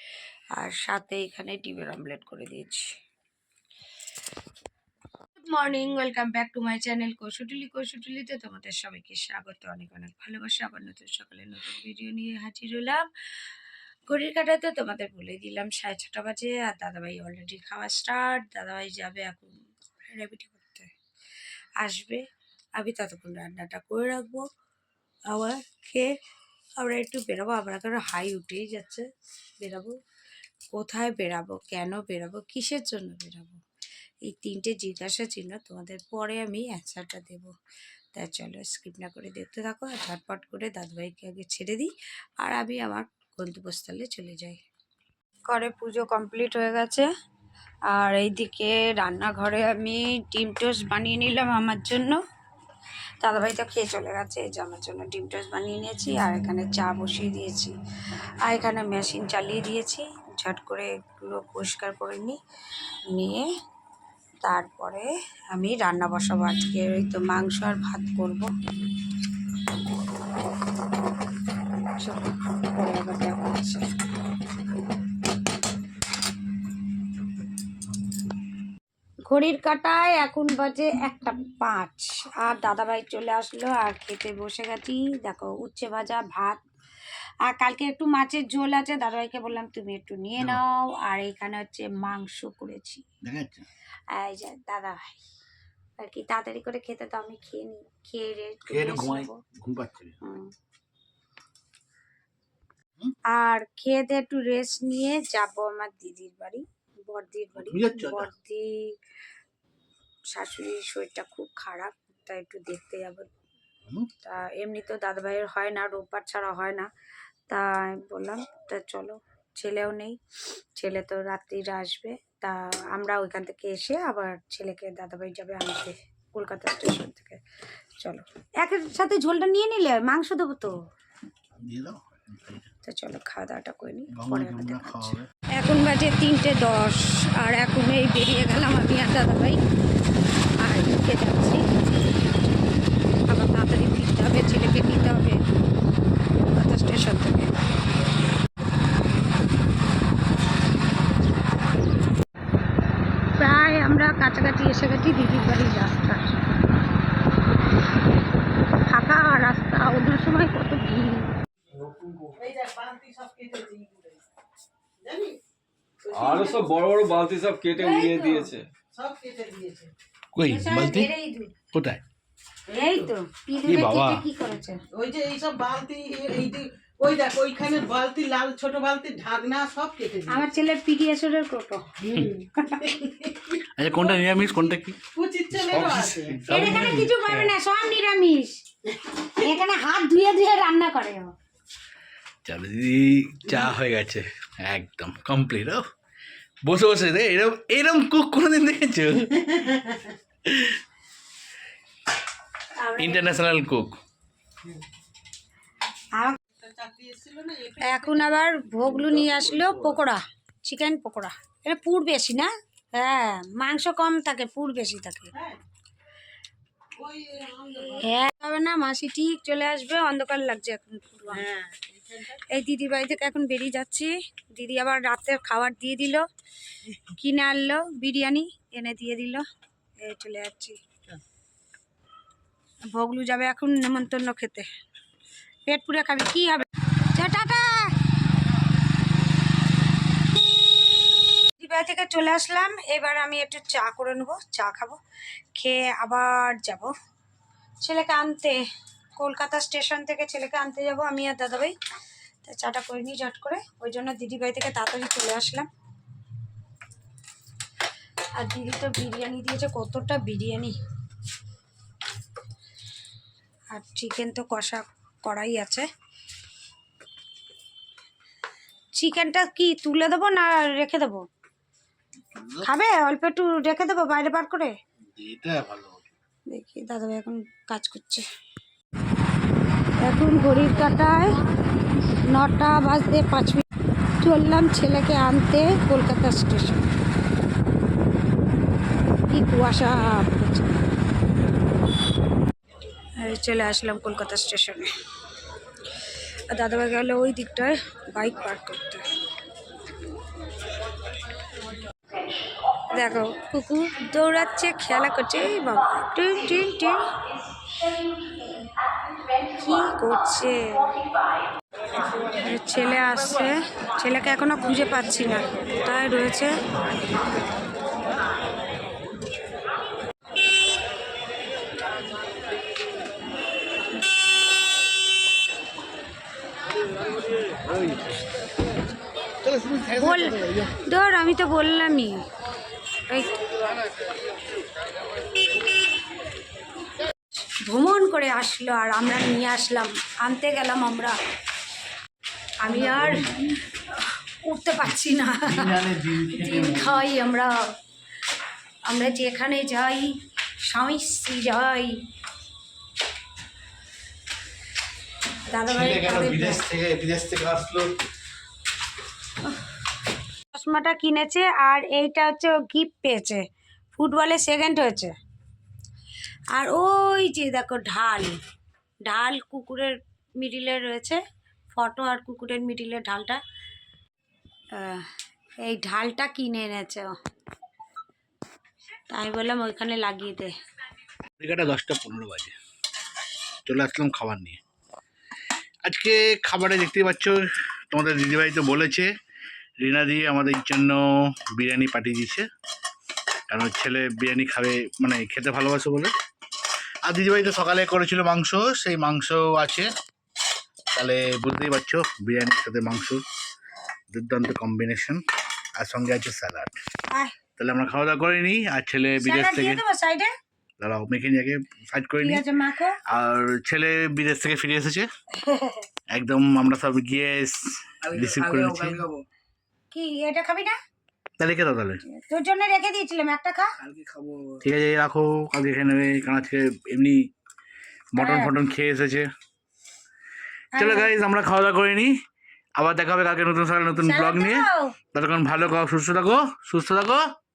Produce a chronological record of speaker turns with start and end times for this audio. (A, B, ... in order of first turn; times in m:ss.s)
0:00.6-0:02.9 A
0:05.4-0:13.1 A
0:14.1-0:20.9 A
0:21.8-0:22.2 A
0:22.8-0:24.5 A
0:25.3-0:26.1 A
0:26.8-0:29.1 A
0:29.6-0:30.0 A
0:30.7-0:33.6 A
0:34.3-0:37.5 A
0:38.1-0:44.6 A
0:45.5-0:47.1 A
0:47.9-0:52.2 A
0:53.2-0:57.8 A
0:58.4-1:02.4 A
1:03.1-1:03.5 A
1:04.4-1:08.5 A
1:11.9-1:13.8 A
1:19.3-1:26.6 A
1:27.5-1:33.0 A
1:33.2-1:33.7 B
1:34.1-1:35.2 A
1:36.0-1:39.4 A
1:38.7-1:40.2 B
1:40.2-1:40.5 A
1:43.3-1:49.0 A
1:47.6-1:48.3 B
1:50.3-1:53.3 A
1:54.2-1:56.9 A
1:57.5-2:00.2 A
2:00.8-2:07.4 A
2:08.0-2:10.8 A
2:11.6-2:12.7 B
2:12.8-2:19.6 A
2:14.1-2:15.3 B
2:20.6-2:21.7 A
2:23.3-2:25.4 A
2:26.6-2:27.6 A
2:33.3-2:36.3 A
2:38.8-2:41.3 A
2:42.2-2:44.2 C
2:45.0-2:45.4 C
2:46.0-2:46.8 C
2:46.1-2:48.7 D
2:47.8-2:48.5 A
2:48.9-2:49.9 C
2:50.4-2:51.1 B
2:50.5-2:51.5 A
2:51.7-2:52.0 B
2:52.7-2:54.8 A
2:53.7-2:54.2 B
2:54.9-3:00.4 C
3:00.3-3:03.3 A
3:02.8-3:03.6 C
3:03.8-3:05.0 B
3:05.1-3:06.4 C
3:05.7-3:07.5 B
3:06.5-3:08.6 A
3:09.2-3:11.3 A
3:12.4-3:15.8 B
3:16.6-3:19.6 B
3:19.7-3:20.1 C
3:20.4-3:20.8 B
3:22.8-3:23.2 A
3:23.0-3:24.0 B
3:26.5-3:28.3 C
3:27.8-3:35.3 A
3:28.8-3:29.9 D
3:35.3-3:35.6 C
3:37.0-3:38.1 C
3:37.9-3:41.5 A
3:41.3-3:42.4 C
3:42.5-3:46.2 A
3:47.0-3:49.4 A
3:50.0-3:50.8 A
3:52.9-3:54.7 A
3:55.7-3:57.9 A
4:01.5-4:05.0 A
4:05.6-4:06.9 A
4:07.8-4:08.6 A
4:09.2-4:11.8 A
4:12.4-4:15.7 A
4:18.4-4:20.8 A
4:23.7-4:25.9 A
4:29.0-4:31.2 A
4:32.2-4:32.7 B
4:32.6-4:34.8 A
4:35.1-4:36.1 B
4:36.5-4:38.3 A
4:40.0-4:41.4 A
4:42.3-4:43.6 A
4:44.2-4:46.9 A
4:49.3-4:50.7 A
4:53.2-4:54.9 A
4:56.5-4:59.1 A
5:02.9-5:07.1 A
5:09.5-5:10.9 A
5:12.3-5:17.1 A
5:29.4-5:30.3 B
5:29.9-5:32.2 A
5:33.1-5:33.4 A
5:37.6-5:41.2 A
5:42.6-5:43.4 A
5:42.8-5:43.3 B
5:44.0-5:47.5 A
5:45.5-5:47.0 B
5:48.9-5:52.0 A
5:55.5-5:56.6 A
5:55.7-5:58.0 B
6:00.5-6:03.4 A
6:04.0-6:05.2 A
6:06.5-6:08.4 A
6:09.1-6:13.4 A
6:14.7-6:17.2 A
6:19.1-6:20.5 A
6:21.4-6:22.6 B
6:23.7-6:24.6 B
6:25.8-6:29.1 B
6:29.8-6:32.5 B
6:33.5-6:36.1 B
6:37.1-6:39.9 B
6:41.0-6:43.2 B
6:44.1-6:45.2 B
6:45.8-6:46.8 B
6:47.1-6:47.4 A
6:47.6-6:49.8 B
6:49.2-6:50.3 A
6:50.8-6:52.4 B
6:52.2-6:53.0 A
6:53.1-6:55.1 B
6:55.4-6:55.8 A
6:56.1-6:59.1 B
6:58.3-6:58.9 D
6:59.9-7:00.8 A
7:01.4-7:02.0 B
7:02.0-7:03.7 A
7:03.9-7:04.6 D
7:04.6-7:07.2 B
7:08.2-7:08.5 A
7:08.2-7:09.3 B
7:10.7-7:11.1 A
7:10.8-7:12.1 B
7:12.8-7:17.3 B
7:14.0-7:15.0 A